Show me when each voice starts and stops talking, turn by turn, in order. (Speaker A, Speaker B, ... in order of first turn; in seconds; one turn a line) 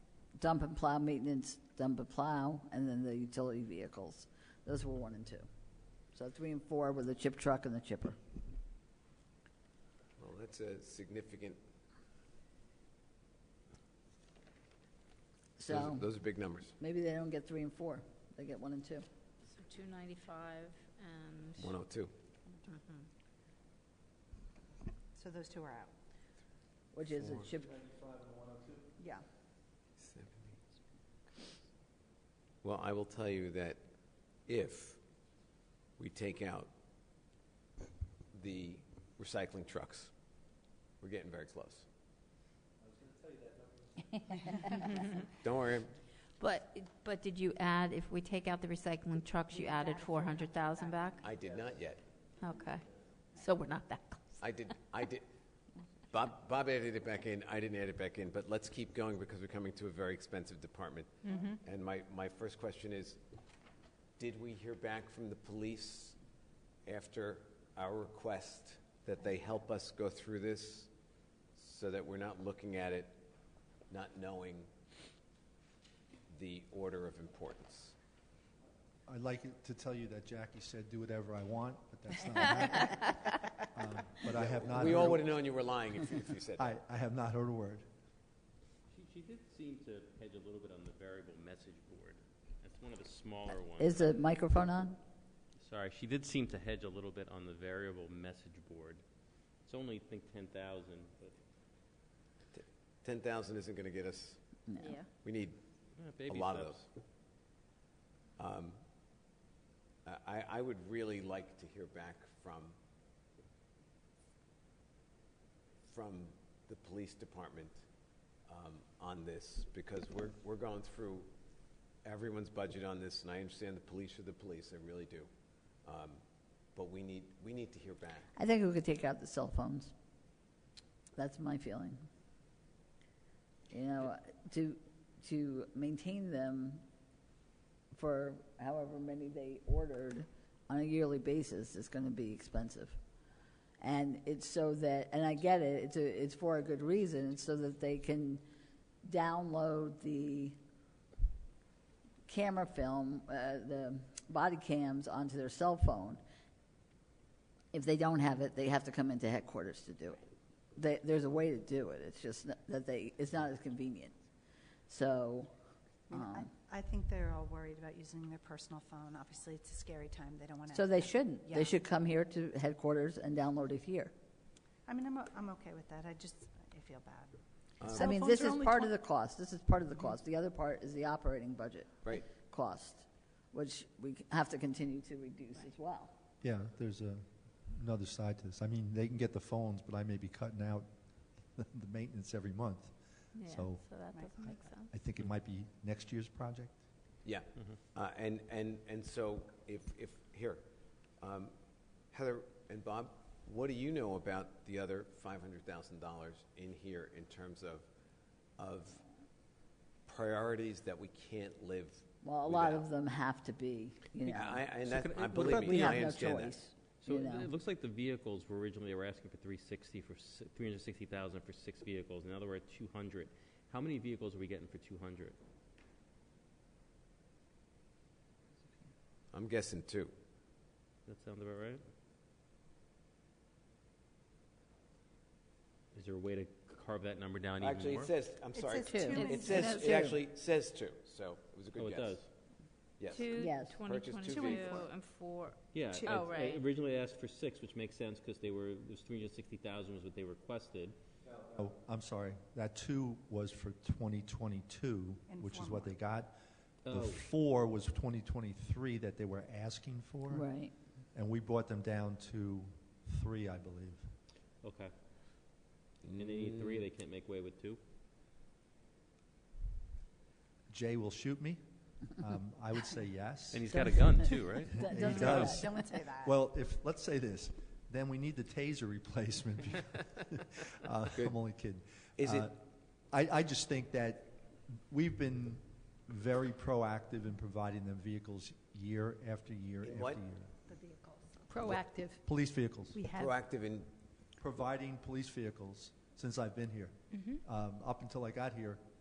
Speaker A: 0.4-5.5
Speaker A: 6.1-8.2
Speaker B: 10.2-11.6
Speaker A: 15.6-16.1
Speaker B: 15.7-16.7
Speaker A: 16.8-19.1
Speaker C: 19.4-21.8
Speaker B: 21.6-22.1
Speaker C: 22.7-23.1
Speaker D: 25.1-25.9
Speaker A: 26.9-27.7
Speaker B: 27.2-27.4
Speaker E: 27.5-28.9
Speaker D: 29.0-29.2
Speaker B: 30.0-30.5
Speaker B: 32.6-33.9
Speaker B: 34.4-35.0
Speaker B: 36.0-36.7
Speaker B: 38.3-40.1
Speaker B: 41.0-41.9
Speaker E: 42.9-43.9
Speaker B: 45.4-46.0
Speaker C: 46.4-51.2
Speaker D: 49.5-51.2
Speaker B: 51.2-52.0
Speaker C: 52.4-54.4
Speaker B: 54.4-55.2
Speaker B: 56.1-63.2
Speaker D: 61.3-61.6
Speaker B: 64.2-66.2
Speaker B: 66.8-70.9
Speaker B: 71.5-73.2
Speaker B: 73.9-74.7
Speaker B: 76.3-78.0
Speaker E: 79.0-83.2
Speaker E: 83.7-85.4
Speaker B: 84.3-86.7
Speaker E: 86.6-87.8
Speaker F: 88.9-94.2
Speaker A: 93.8-95.0
Speaker F: 95.6-99.0
Speaker F: 99.6-101.4
Speaker B: 102.5-104.6
Speaker A: 104.7-105.0
Speaker C: 104.8-105.1
Speaker B: 105.2-105.6
Speaker F: 106.0-106.8
Speaker B: 106.2-106.8
Speaker B: 108.4-108.8
Speaker B: 110.0-112.8
Speaker B: 115.8-117.8
Speaker B: 118.5-121.3
Speaker B: 122.0-125.3
Speaker B: 125.8-126.2
Speaker B: 126.7-128.3
Speaker A: 128.3-129.9
Speaker A: 131.2-132.1
Speaker A: 133.7-136.8
Speaker A: 137.9-143.0
Speaker A: 143.8-148.4
Speaker A: 149.0-150.6
Speaker A: 152.2-156.2
Speaker A: 157.7-160.2
Speaker A: 160.8-164.2
Speaker A: 164.9-165.5
Speaker D: 166.1-171.8
Speaker A: 166.1-166.5
Speaker A: 170.7-174.1
Speaker D: 174.8-178.9
Speaker B: 177.8-178.1
Speaker A: 177.9-186.1
Speaker E: 186.4-193.8
Speaker C: 193.3-194.9
Speaker D: 194.1-194.8
Speaker E: 194.9-196.8
Speaker B: 197.2-200.7
Speaker B: 201.2-201.6
Speaker B: 202.1-207.9
Speaker B: 208.6-209.0
Speaker B: 210.1-212.8
Speaker A: 212.2-214.7
Speaker B: 214.2-216.6
Speaker F: 214.8-216.1
Speaker A: 215.3-217.5
Speaker F: 217.0-225.4
Speaker B: 229.3-230.1
Speaker F: 231.1-231.8
Speaker F: 235.9-238.1
Speaker B: 237.6-242.2
Speaker D: 238.5-240.0
Speaker A: 238.9-240.2
Speaker C: 239.1-239.5
Speaker F: 241.8-242.3
Speaker B: 243.0-244.9
Speaker C: 243.1-246.6
Speaker A: 243.3-243.8
Speaker D: 244.4-244.8
Speaker F: 245.7-250.9
Speaker D: 245.9-246.2
Speaker E: 251.3-264.1
Speaker D: 255.3-255.9
Speaker F: 256.8-257.2
Speaker A: 260.3-260.7
Speaker F: 264.6-264.9
Speaker B: 266.0-266.9
Speaker F: 266.0-267.8
Speaker E: 270.7-274.1
Speaker F: 273.5-275.7
Speaker A: 273.7-275.7
Speaker E: 274.7-290.5
Speaker D: 274.9-276.3
Speaker B: 282.2-282.5
Speaker B: 289.8-290.2
Speaker D: 290.7-291.5
Speaker C: 291.5-292.2
Speaker E: 291.6-293.1
Speaker D: 292.9-293.4
Speaker B: 293.1-293.9
Speaker E: 294.4-298.8
Speaker C: 297.1-297.4